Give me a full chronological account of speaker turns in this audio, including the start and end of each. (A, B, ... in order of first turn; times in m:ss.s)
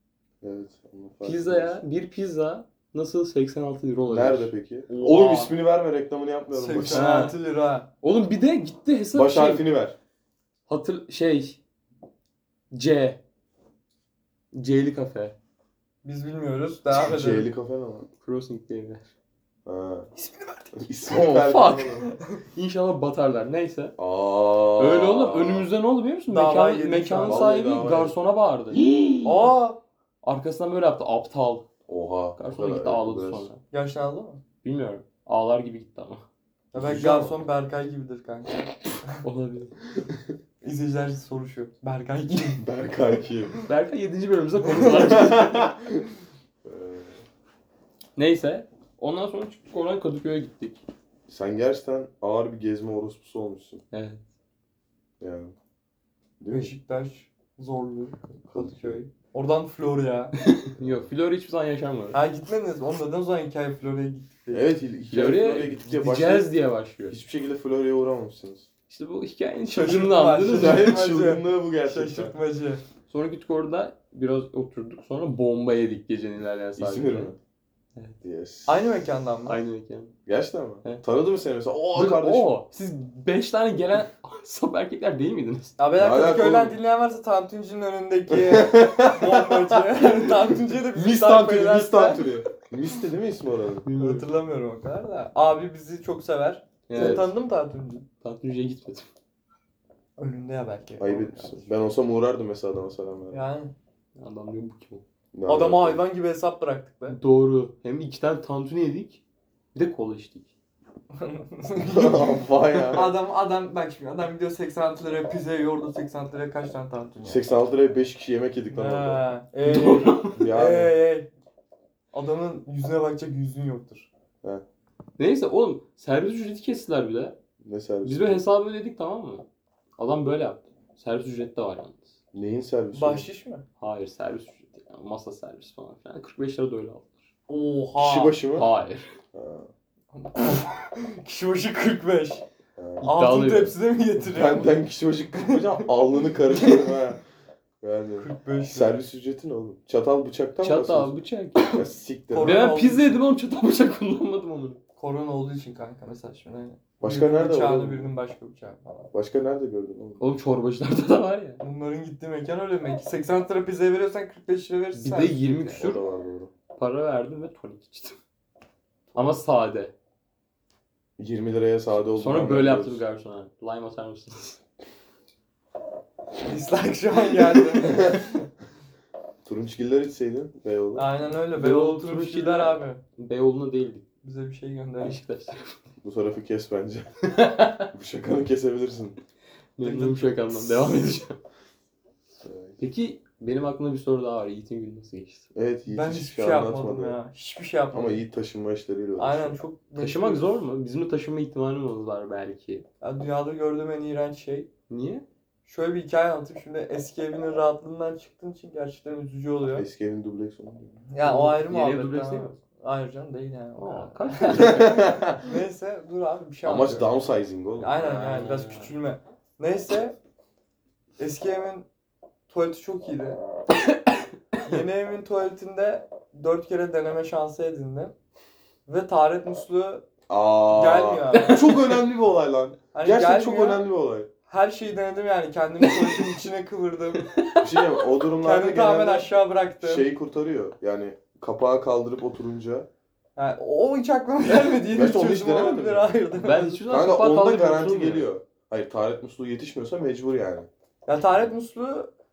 0:00.4-0:01.8 A
0:01.2-0:04.5 B
0:04.1-0:07.1 A
0:04.9-0:05.6 C
0:06.5-0:07.9 C
0:06.8-0:07.4 B
0:08.0-0:09.6 B
0:09.1-0:10.0 A
0:10.7-0:11.6 B
0:12.7-0:13.2 B
0:14.5-0:15.4 B
0:16.0-0:17.5 C
0:17.0-0:18.1 A
0:18.2-0:19.1 B
0:19.6-0:20.1 A
0:20.8-0:22.1 A
0:21.0-0:24.0 B
0:24.0-0:25.7 A
0:24.8-0:29.5 B
0:26.3-0:27.5 C
0:27.2-0:28.1 A
0:29.2-0:29.8 C
0:30.2-0:31.6 B
0:31.9-0:33.5 A
0:32.4-0:33.6 B
0:33.7-0:34.4 C
0:34.6-0:36.2 B
0:36.7-0:39.2 C
0:36.7-0:37.4 A
0:39.2-0:39.7 B
0:40.6-0:42.6 C
0:42.6-0:43.5 A
0:43.6-0:45.7 B
0:44.7-0:45.2 C
0:44.9-0:46.0 A
0:46.6-0:47.2 A
0:48.2-0:50.8 B
0:51.3-0:53.8 A
0:53.9-0:54.2 B
0:55.2-0:55.5 A
0:56.4-0:56.7 A
0:56.5-1:00.3 C
0:58.5-0:59.0 A
1:00.4-1:02.2 B
1:00.8-1:01.1 A
1:02.1-1:04.7 C
1:04.5-1:06.5 A
1:05.1-1:07.2 B
1:07.1-1:08.7 A
1:08.9-1:10.9 B
1:09.7-1:12.8 C
1:10.5-1:12.3 A
1:13.1-1:17.3 B
1:16.8-1:17.4 A
1:18.2-1:18.9 A
1:18.7-1:19.6 C
1:19.4-1:20.1 B
1:20.2-1:22.5 A
1:21.9-1:25.8 B
1:25.8-1:32.3 C
1:26.0-1:26.8 A
1:28.3-1:33.8 A
1:33.8-1:34.2 B
1:34.0-1:38.0 C
1:36.9-1:37.3 B
1:36.9-1:37.2 A
1:38.2-1:39.1 B
1:40.2-1:41.7 C
1:41.0-1:43.4 A
1:43.3-1:43.7 C
1:44.2-1:45.0 B
1:45.3-1:46.0 A
1:45.5-1:47.2 C
1:47.1-1:49.2 B
1:49.7-1:50.5 B
1:51.1-1:57.4 C
1:51.9-1:53.2 A
1:57.2-1:59.2 A
1:58.7-2:01.3 C
1:59.6-2:00.4 B
2:00.3-2:00.9 A
2:02.1-2:04.1 C
2:05.2-2:07.4 B
2:07.6-2:08.4 A
2:08.0-2:09.4 B
2:10.0-2:12.1 B
2:12.3-2:13.3 A
2:12.9-2:13.6 C
2:13.8-2:17.3 B
2:17.5-2:18.4 C
2:18.0-2:18.7 A
2:18.6-2:19.1 B
2:19.3-2:19.7 A
2:20.1-2:22.4 C
2:22.8-2:23.1 A
2:23.0-2:23.7 B
2:23.0-2:24.8 C
2:24.2-2:27.2 A
2:25.3-2:25.9 C
2:26.5-2:26.9 C
2:27.8-2:32.6 A
2:28.2-2:29.0 C
2:30.6-2:31.8 B
2:32.3-2:33.2 C
2:32.4-2:34.8 B
2:35.0-2:39.1 C
2:37.0-2:38.1 A
2:39.1-2:40.3 A
2:40.2-2:41.6 B
2:41.6-2:45.8 C
2:44.9-2:46.0 B
2:45.7-2:46.5 A
2:46.7-2:48.2 B
2:49.1-2:49.9 B
2:51.2-2:53.0 A
2:52.2-2:54.6 B
2:56.4-2:58.5 C
2:57.8-2:58.2 A
2:59.4-3:01.1 A
3:00.9-3:03.0 C
3:01.5-3:04.0 B
3:04.2-3:05.2 C
3:05.0-3:05.8 B
3:06.0-3:07.1 A
3:07.3-3:07.9 B
3:07.9-3:09.2 A
3:09.8-3:11.4 B
3:09.8-3:10.9 C
3:12.4-3:12.8 A
3:12.8-3:15.5 B
3:15.5-3:17.2 A
3:15.9-3:18.2 C
3:17.9-3:19.6 A
3:19.2-3:20.6 C
3:20.0-3:22.8 B
3:23.0-3:24.7 C
3:24.9-3:25.2 B
3:25.6-3:29.8 C
3:29.7-3:31.0 A
3:31.1-3:37.2 C
3:31.2-3:32.5 B
3:33.8-3:35.2 B
3:34.6-3:35.5 A
3:36.6-3:38.0 A
3:37.8-3:40.2 C
3:38.0-3:38.9 B
3:41.2-3:41.9 C
3:42.5-3:43.4 C
3:43.9-3:44.7 B
3:44.6-3:48.1 C
3:48.8-3:50.0 C
3:50.3-3:54.3 A
3:50.7-3:51.7 C
3:51.3-3:52.0 B
3:52.9-3:53.8 C
3:54.5-3:57.3 C
3:55.8-3:56.3 B
3:57.2-3:57.8 B
3:57.6-4:02.9 A
3:58.4-4:00.0 C
4:03.4-4:06.8 C
4:04.8-4:06.1 A
4:06.4-4:08.3 B
4:06.9-4:10.7 A
4:11.0-4:12.1 C